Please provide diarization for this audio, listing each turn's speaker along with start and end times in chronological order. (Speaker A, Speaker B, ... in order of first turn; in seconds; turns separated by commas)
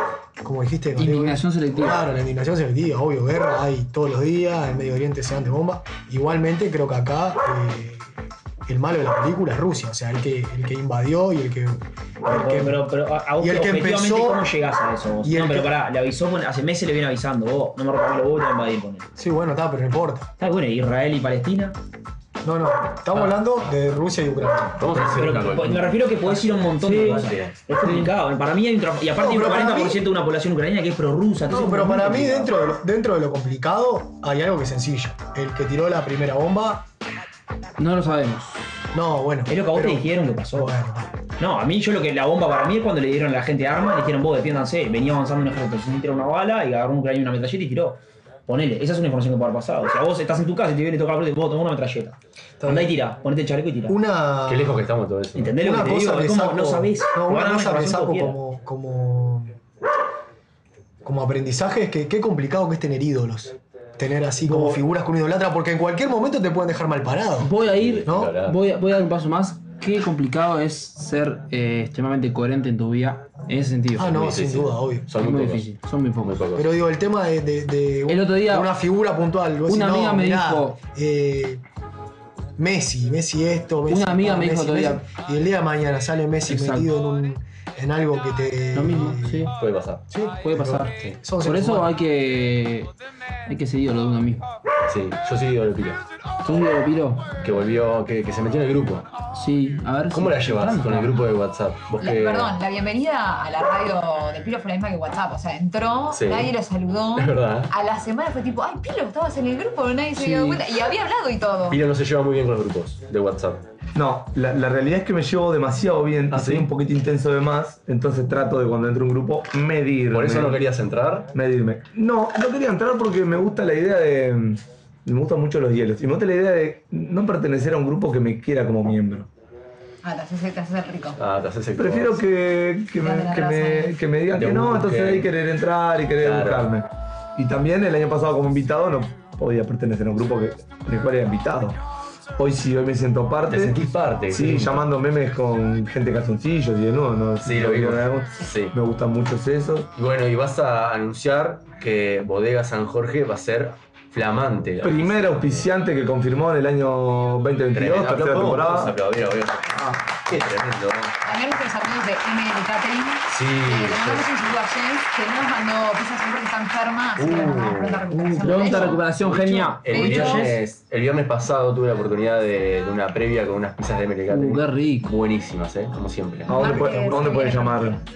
Speaker A: 0.4-12.8, Speaker B: 1.0-2.0, Speaker C: 12.2-19.1, Speaker A: 13.4-14.5, Speaker A: 15.2-15.7, Speaker A: 19.2-20.3, Speaker C: 20.4-21.8, Speaker A: 22.4-25.1, Speaker D: 24.8-27.5, Speaker C: 25.1-32.5, Speaker B: 26.8-27.3, Speaker B: 27.8-28.1, Speaker A: 29.1-30.0, Speaker A: 31.5-36.9, Speaker B: 37.8-38.6, Speaker A: 38.9-41.1, Speaker C: 39.5-40.7, Speaker C: 41.4-54.0, Speaker A: 52.6-52.9, Speaker A: 53.9-54.9, Speaker D: 54.4-55.6, Speaker C: 55.3-58.4, Speaker A: 55.6-59.5, Speaker A: 61.0-67.5, Speaker B: 64.5-64.8, Speaker B: 67.4-74.2, Speaker D: 67.6-68.6, Speaker A: 68.0-68.3, Speaker A: 73.9-75.1, Speaker D: 74.0-75.7, Speaker B: 75.2-76.4, Speaker D: 76.2-76.7, Speaker A: 76.5-81.6, Speaker B: 78.1-78.7, Speaker B: 79.7-80.8, Speaker A: 82.6-89.5, Speaker B: 83.9-85.0, Speaker B: 86.5-86.9, Speaker B: 88.7-89.5, Speaker D: 89.6-90.0, Speaker A: 90.1-91.9, Speaker B: 90.4-92.9, Speaker B: 93.5-94.4, Speaker D: 94.9-96.0, Speaker B: 96.4-97.3, Speaker D: 97.4-99.1, Speaker B: 99.3-101.2, Speaker D: 100.1-102.5, Speaker E: 102.0-111.8, Speaker D: 106.1-106.5, Speaker D: 107.1-107.7, Speaker B: 110.2-110.6, Speaker D: 111.7-113.6, Speaker F: 113.9-120.6, Speaker D: 116.3-116.7, Speaker D: 120.1-121.3, Speaker F: 121.3-129.3, Speaker E: 130.0-131.2, Speaker D: 131.2-132.2, Speaker F: 131.8-141.8, Speaker E: 133.0-134.0, Speaker D: 134.3-135.3, Speaker D: 136.2-136.7, Speaker F: 142.4-149.9, Speaker D: 143.5-144.8, Speaker D: 147.4-148.7, Speaker D: 149.9-155.7, Speaker F: 154.8-159.0, Speaker D: 157.7-161.1, Speaker E: 161.2-169.1, Speaker D: 163.3-164.3, Speaker D: 167.2-176.7, Speaker B: 168.4-170.2, Speaker C: 169.7-170.5, Speaker E: 169.8-170.6, Speaker B: 174.3-175.1, Speaker F: 176.5-178.0, Speaker E: 176.5-178.0